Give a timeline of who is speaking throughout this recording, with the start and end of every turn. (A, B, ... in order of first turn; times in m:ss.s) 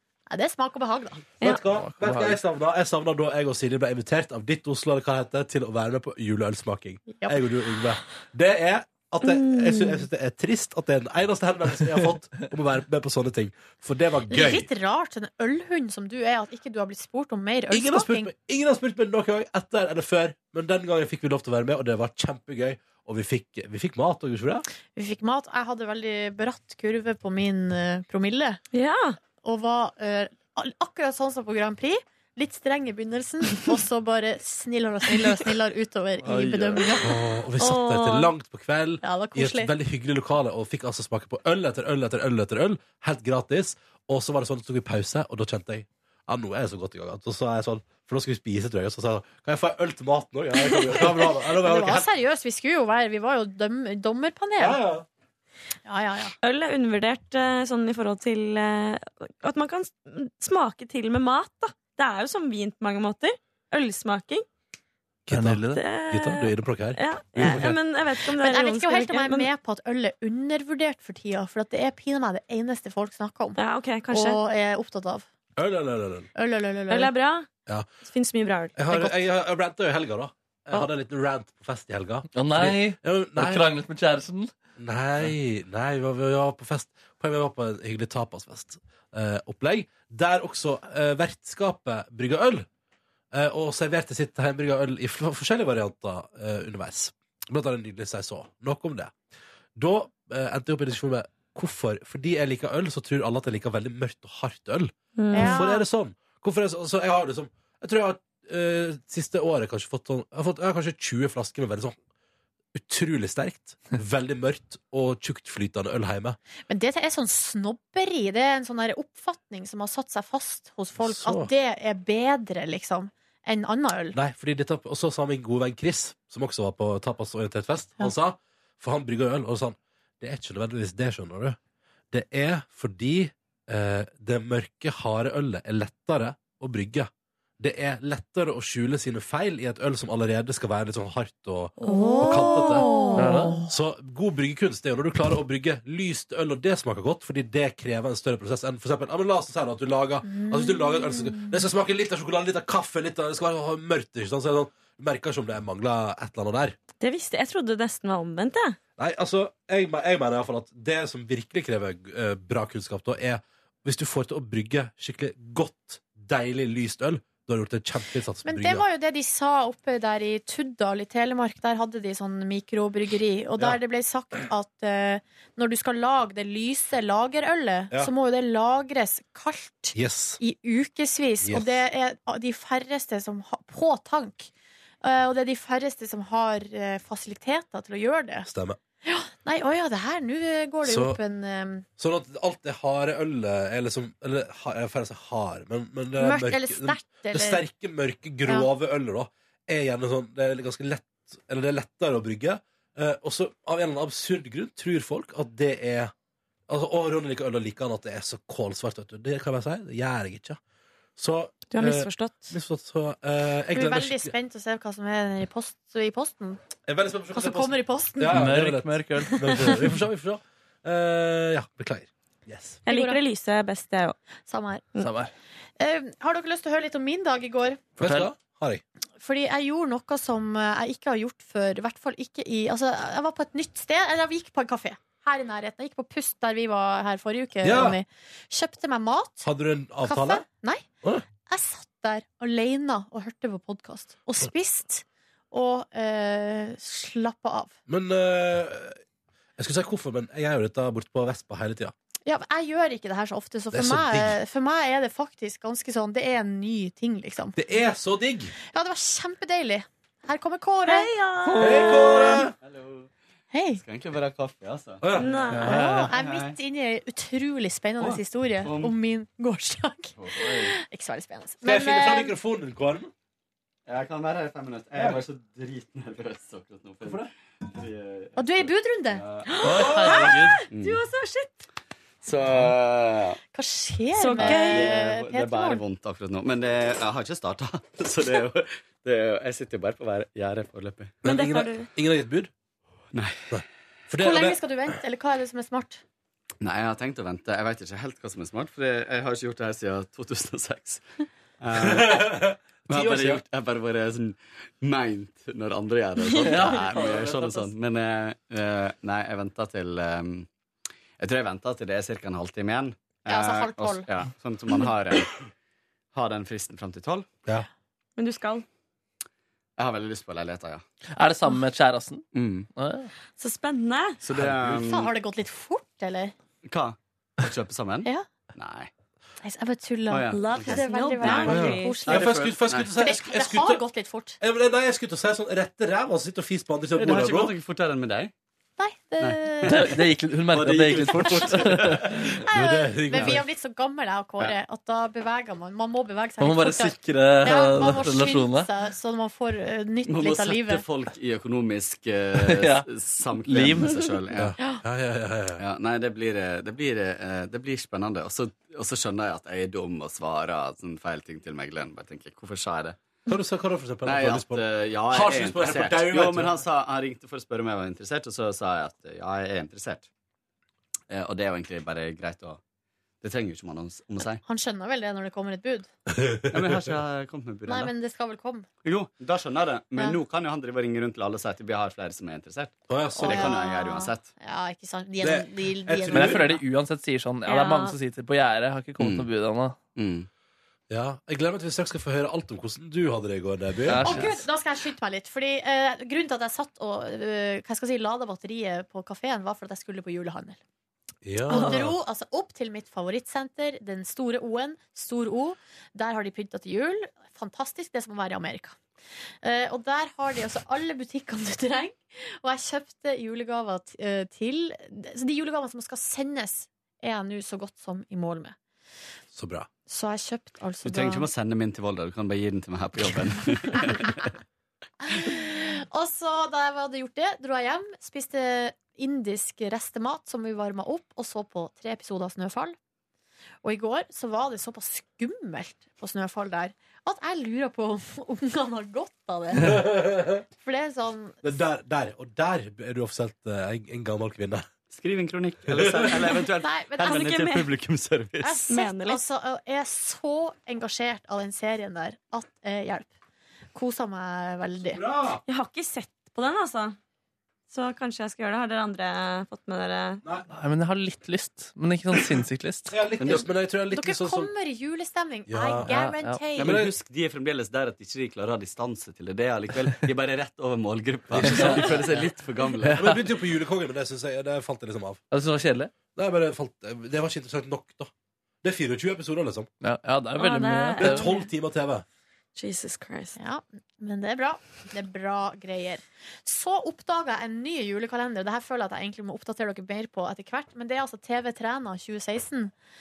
0:00.3-0:01.3 A
0:01.4-0:14.7 B
0:01.6-0:02.4 C
0:07.1-0:07.4 A
0:09.2-0:10.1 D
0:14.3-0:18.3 A
0:17.7-0:24.7 B
0:25.0-0:28.6 A
0:28.7-0:29.2 D
0:29.4-0:37.2 A
0:36.2-0:37.0 C
0:37.0-0:52.1 B
0:37.6-0:38.3 D
0:39.0-0:39.7 A
0:51.0-0:54.8 A
0:54.6-0:55.1 B
0:55.9-0:56.3 A
0:56.4-1:04.5 D
1:05.3-1:07.8 B
1:05.3-1:05.8 C
1:05.7-1:09.5 D
1:08.4-1:15.3 A
1:13.6-1:14.4 D
1:15.6-1:16.3 B
1:16.4-1:17.1 A
1:16.9-1:17.5 D
1:18.0-1:19.0 D
1:18.8-1:23.7 B
1:22.4-1:24.5 C
1:24.8-1:32.7 B
1:33.3-1:39.1 B
1:39.8-1:52.0 B
1:45.2-1:45.7 D
1:45.3-1:45.8 A
1:52.7-1:56.4 B
1:56.7-2:04.2 A
2:01.0-2:01.5 B
2:04.1-2:11.6 B
2:12.1-2:22.9 B
2:21.8-2:23.5 D
2:21.8-2:23.7 A
2:23.2-2:23.6 C
2:23.7-2:36.8 B
2:30.3-2:31.5 A
2:37.0-2:38.8 D
2:39.0-2:48.8 B
2:48.4-3:04.5 A
3:00.0-3:00.4 B
3:01.4-3:01.8 B
3:05.0-3:08.5 A
3:08.4-3:08.8 B
3:09.0-3:11.9 A
3:10.8-3:11.2 B
3:12.0-3:26.1 B
3:16.2-3:17.6 A
3:26.7-3:30.6 B
3:31.2-3:34.3 B
3:31.7-3:32.6 D
3:33.7-3:36.6 A
3:36.9-3:42.9 B
3:37.3-3:38.4 A
3:38.3-3:39.8 C
3:39.3-3:39.8 A
3:42.9-3:44.2 D
3:42.9-3:43.2 A
3:44.5-3:44.9 A
3:45.0-3:45.3 C
3:45.8-3:47.8 A
3:48.0-3:48.8 B
3:48.0-3:48.3 C
3:49.2-3:59.5 A
3:57.6-3:58.0 B
3:59.4-4:00.5 B
4:00.0-4:00.8 A
4:01.5-4:07.8 A
4:07.9-4:09.0 B
4:09.6-4:11.9 B
4:12.3-4:17.6 A
4:13.7-4:14.4 B
4:17.6-4:18.5 B
4:18.7-4:21.1 A
4:20.8-4:22.4 D
4:21.6-4:22.5 B
4:22.6-4:23.1 E
4:23.5-4:23.8 A
4:23.8-4:25.5 E
4:25.0-4:25.8 B
4:25.2-4:25.8 D
4:25.6-4:25.9 C
4:25.6-4:32.3 A
4:26.1-4:26.6 E
4:28.0-4:28.9 E
4:30.2-4:30.7 E
4:31.6-4:33.1 B
4:33.9-4:40.0 E
4:38.4-4:39.2 A
4:39.5-4:41.6 D
4:39.6-4:40.6 C
4:39.8-4:40.2 B
4:40.7-4:41.0 E
4:42.2-4:43.4 E
4:43.5-4:45.8 A
4:44.2-4:44.9 D
4:44.4-4:51.2 E
4:51.2-4:51.9 D
4:51.2-4:52.5 B
4:53.1-4:53.6 E
4:53.5-4:54.6 B
4:54.2-4:56.0 A
4:56.6-5:01.0 E
5:01.6-5:10.5 E
5:01.8-5:03.4 B
5:06.3-5:07.7 C
5:11.2-5:15.4 E
5:13.3-5:14.1 A
5:16.1-5:17.3 E
5:18.2-5:18.7 D
5:19.8-5:20.8 E
5:21.2-5:23.1 C
5:22.3-5:22.7 E
5:23.4-5:24.2 D
5:24.2-5:25.1 E
5:24.3-5:24.8 B
5:24.7-5:26.3 A
5:26.6-5:28.9 E
5:29.4-5:32.4 A
5:30.1-5:32.9 E
5:30.3-5:32.1 D
5:31.4-5:33.8 B
5:32.9-5:34.4 A
5:34.4-5:37.6 B
5:37.0-5:38.3 E
5:38.8-5:39.9 A
5:39.2-5:42.3 E
5:39.6-5:42.2 C
5:42.4-5:50.8 A
5:42.5-5:43.4 B
5:46.4-5:48.7 C
5:50.1-5:54.6 E
5:52.4-5:52.9 C
5:53.4-5:54.0 C
5:54.4-5:55.6 B
5:55.6-6:03.0 E
6:03.3-6:06.6 B
6:04.1-6:10.1 E
6:11.1-6:12.6 E
6:13.2-6:14.4 E
6:14.4-6:15.9 A
6:16.1-6:16.9 B
6:16.5-6:17.9 E
6:17.7-6:18.7 A
6:18.8-6:24.3 E
6:22.9-6:23.5 B
6:23.2-6:26.6 A
6:25.2-6:26.5 B
6:26.1-6:29.8 C
6:27.5-6:28.0 D
6:29.0-6:29.3 E
6:30.0-6:30.3 E
6:30.9-6:34.2 B
6:33.9-6:34.5 C
6:34.0-6:40.6 A
6:41.2-6:42.0 B
6:41.5-6:48.8 A
6:49.4-6:58.6 A
6:59.3-6:59.7 B
6:59.9-7:01.3 A
7:00.8-7:04.3 E
7:05.1-7:12.8 A
7:13.6-7:19.9 A
7:19.6-7:20.4 B
7:20.6-7:21.4 A
7:21.4-7:24.7 B
7:24.9-7:28.6 E
7:25.7-7:26.3 B
7:26.6-7:27.2 A
7:27.0-7:27.7 D
7:28.4-7:33.1 A
7:28.7-7:29.2 D
7:33.7-7:35.0 A
7:34.8-7:35.4 B
7:35.5-7:37.0 D
7:37.7-7:40.2 D
7:40.5-7:43.0 C
7:42.9-7:44.5 B
7:43.2-7:43.5 E
7:43.9-7:46.8 A
7:45.5-7:45.9 B
7:45.8-7:46.4 C
7:46.6-7:53.0 E
7:46.6-7:46.9 B
7:51.3-7:52.0 B
7:51.4-7:53.2 C
7:53.0-7:55.2 B
7:55.3-7:55.9 C
7:56.2-7:58.1 B
7:58.6-7:59.7 B
7:59.8-8:01.3 C
8:00.4-8:01.5 D
8:01.0-8:02.0 B
8:02.6-8:03.4 D
8:03.4-8:12.7 A